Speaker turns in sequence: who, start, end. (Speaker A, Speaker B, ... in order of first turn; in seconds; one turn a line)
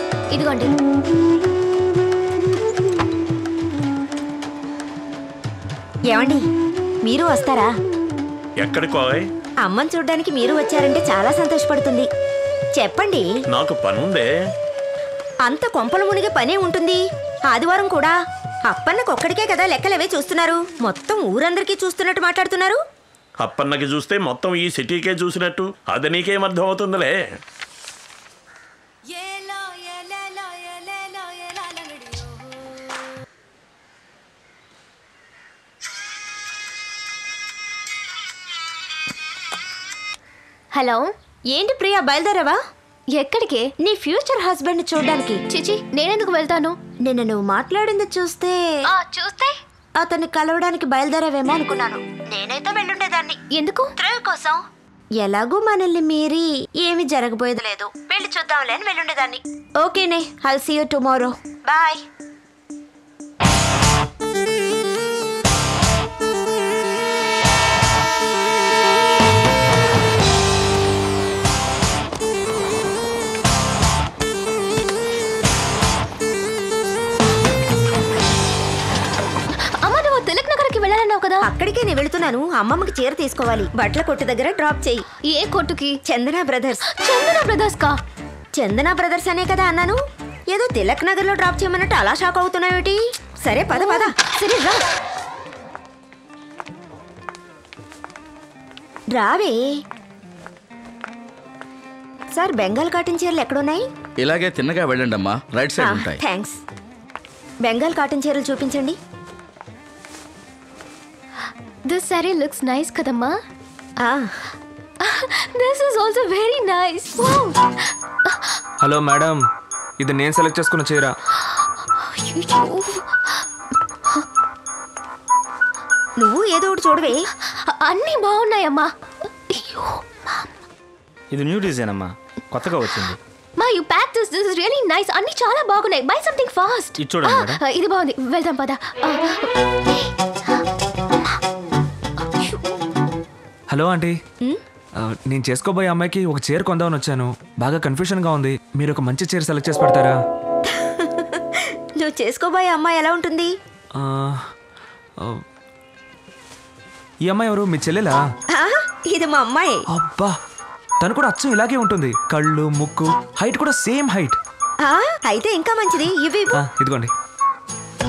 Speaker A: 0.3-0.7
Speaker B: 6.1-6.4
Speaker B: 7.0-7.7
Speaker C: 8.6-9.3
Speaker B: 9.6-12.1
Speaker B: 12.8-13.2
Speaker C: 13.5-14.3
Speaker B: 15.4-18.1
Speaker B: 18.7-22.8
Speaker C: 23.4-27.3
Speaker A: 40.7-41.1
Speaker B: 41.5-42.6
Speaker A: 43.1-43.7
Speaker B: 43.8-45.4
Speaker A: 45.5-46.8
Speaker B: 47.0-48.6
Speaker A: 48.9-49.5
Speaker B: 50.0-53.4
Speaker A: 53.5-53.9
Speaker B: 54.0-54.6
Speaker B: 55.2-62.0
Speaker A: 79.5-81.5
Speaker B: 81.4-85.0
Speaker A: 85.3-86.0
Speaker B: 86.1-86.8
Speaker A: 86.8-88.0
Speaker B: 88.5-90.0
Speaker B: 90.5-94.2
Speaker A: 93.7-94.8
Speaker B: 99.1-99.6
Speaker B: 102.3-103.8
Speaker D: 104.2-106.2
Speaker B: 105.8-106.6
Speaker B: 107.6-109.0
Speaker A: 111.8-113.3
Speaker B: 114.0-114.5
Speaker A: 115.0-118.6
Speaker E: 118.8-119.4
Speaker E: 120.0-121.1
Speaker A: 122.0-123.1
Speaker B: 126.2-127.3
Speaker A: 127.4-128.9
Speaker A: 129.5-130.5
Speaker F: 131.3-133.2
Speaker A: 133.6-140.1
Speaker F: 137.0-137.6
Speaker A: 142.3-142.6
Speaker E: 143.7-144.2
Speaker E: 145.0-150.2
Speaker B: 150.7-153.5
Speaker E: 153.9-154.4
Speaker E: 157.2-158.2
Speaker B: 158.5-159.8
Speaker E: 159.9-160.3
Speaker E: 161.0-164.4
Speaker B: 164.8-166.6
Speaker E: 166.5-167.1